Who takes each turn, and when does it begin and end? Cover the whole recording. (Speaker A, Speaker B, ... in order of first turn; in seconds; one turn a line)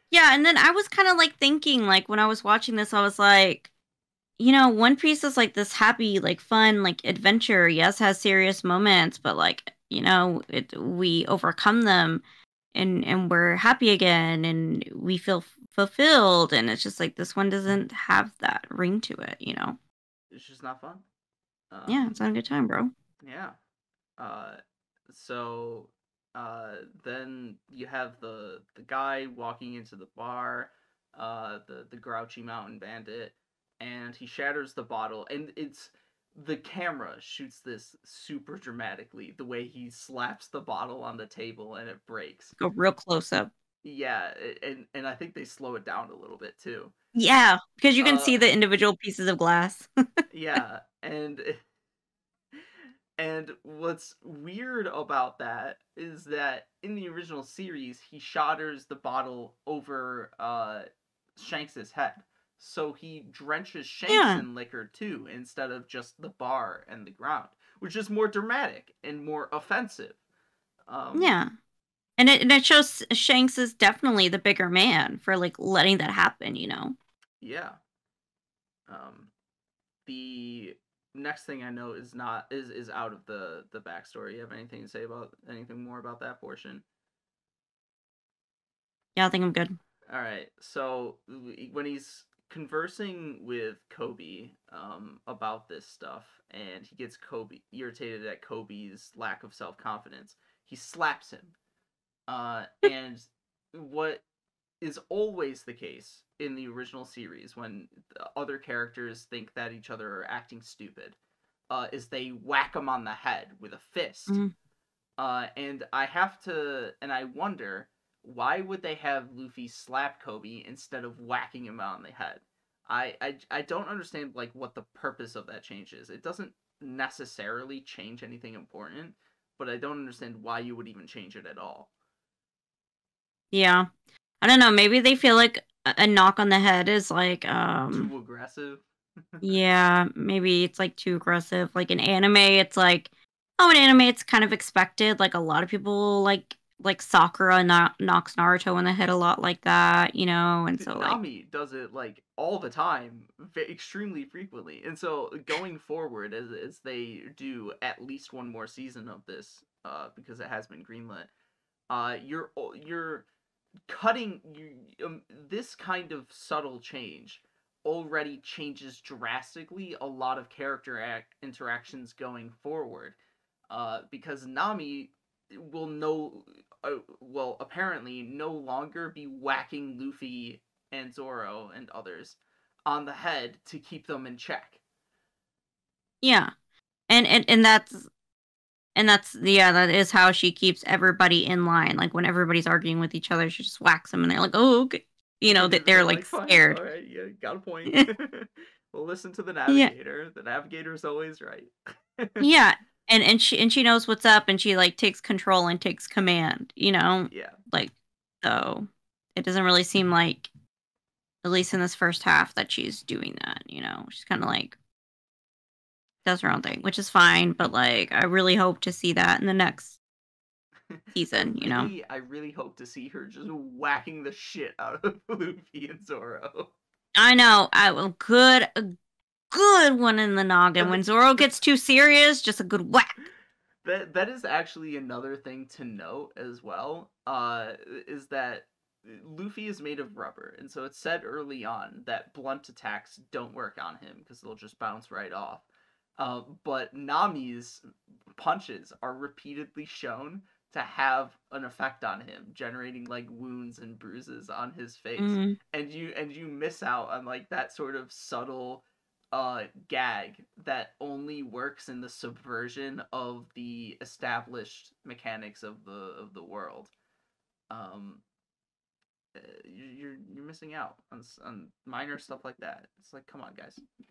Speaker A: 0.1-3.7
Speaker A: 4.4-12.2
Speaker A: 12.7-19.8
Speaker B: 20.3-21.0
Speaker B: 21.7-22.1
Speaker A: 21.9-22.9
Speaker B: 23.2-23.6
Speaker B: 24.2-42.6
Speaker A: 42.6-43.5
Speaker B: 43.8-46.9
Speaker A: 47.1-49.9
Speaker B: 48.0-48.4
Speaker B: 50.3-51.6
Speaker B: 53.2-70.2
Speaker A: 64.1-64.4
Speaker B: 70.9-71.3
Speaker A: 71.2-71.5
Speaker A: 72.2-77.0
Speaker B: 77.4-77.8
Speaker B: 78.9-79.3
Speaker B: 80.0-86.8
Speaker A: 89.2-89.8
Speaker B: 90.1-101.5
Speaker B: 102.3-104.2
Speaker B: 104.8-111.2
Speaker B: 111.7-114.4
Speaker B: 115.2-131.9
Speaker A: 133.5-133.9
Speaker A: 134.4-138.1
Speaker B: 137.9-138.8
Speaker A: 139.4-151.2
Speaker B: 150.8-161.3
Speaker B: 161.9-163.2
Speaker B: 163.9-173.2
Speaker B: 173.7-184.8
Speaker A: 186.2-186.5
Speaker A: 187.1-188.1
Speaker A: 188.9-196.8
Speaker B: 195.5-202.4
Speaker A: 202.4-210.5
Speaker B: 207.3-207.6
Speaker A: 211.4-214.8
Speaker A: 216.2-220.0
Speaker A: 221.1-221.9
Speaker B: 221.5-226.7
Speaker A: 227.2-228.9
Speaker A: 229.5-233.2
Speaker B: 230.8-231.6
Speaker B: 233.8-245.6
Speaker B: 246.2-266.9
Speaker A: 255.2-255.6
Speaker B: 267.7-268.2
Speaker B: 269.3-273.8